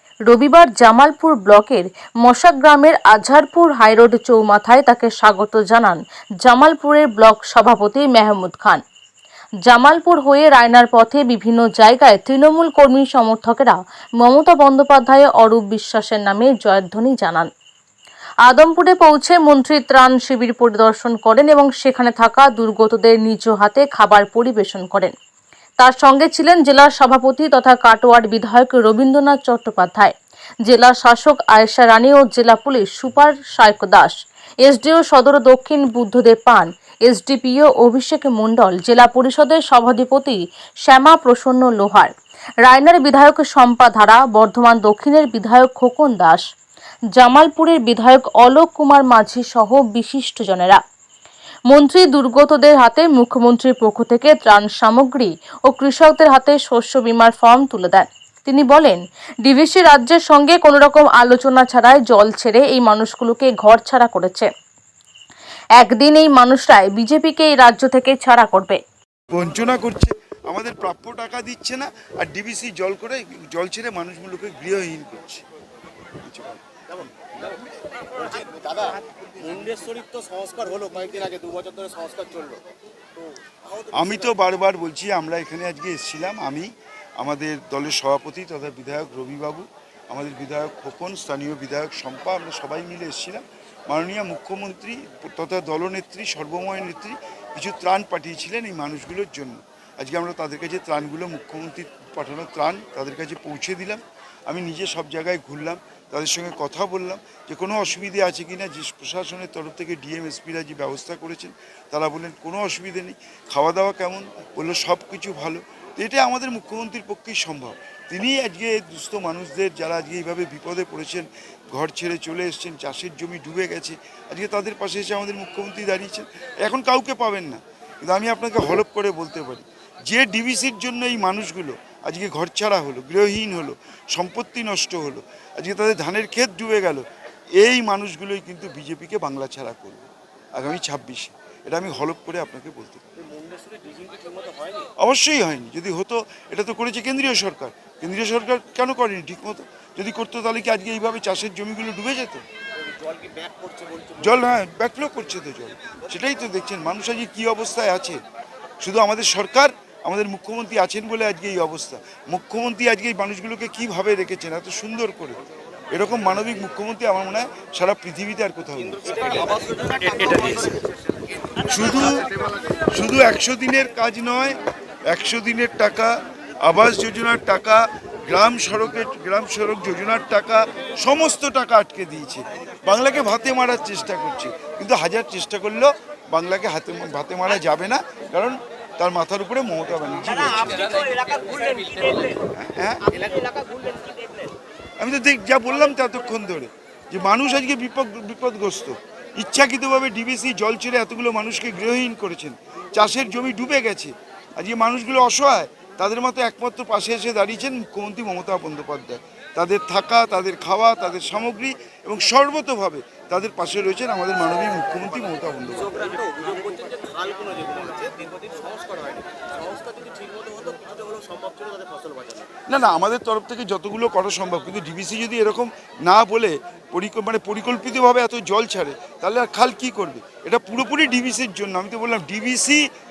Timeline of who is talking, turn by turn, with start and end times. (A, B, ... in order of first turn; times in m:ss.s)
0:00.3-0:08.8 A
0:09.6-0:17.5 A
0:18.5-0:25.1 A
0:25.8-0:30.1 A
0:30.6-0:42.1 A
0:42.6-0:46.4 A
0:47.1-0:50.8 A
0:51.7-1:04.5 A
1:05.8-1:08.8 A
1:09.3-1:15.4 B
1:16.2-1:16.6 B
1:18.2-1:22.6 C
1:23.2-1:24.3 C
1:23.9-2:17.0 B
2:17.6-2:23.0 B
2:23.2-2:24.9 C
2:25.0-2:32.4 B
2:32.8-2:34.4 C
2:34.2-2:38.2 B
2:38.8-2:45.4 B
2:45.9-2:49.4 B
2:48.9-2:50.8 C
2:51.6-2:52.3 B
2:52.9-3:10.9 B
3:11.2-3:12.4 C
3:12.5-3:13.2 B
3:13.2-3:14.3 C
3:15.0-3:36.0 B
3:35.8-3:42.6 C
3:42.7-3:52.8 B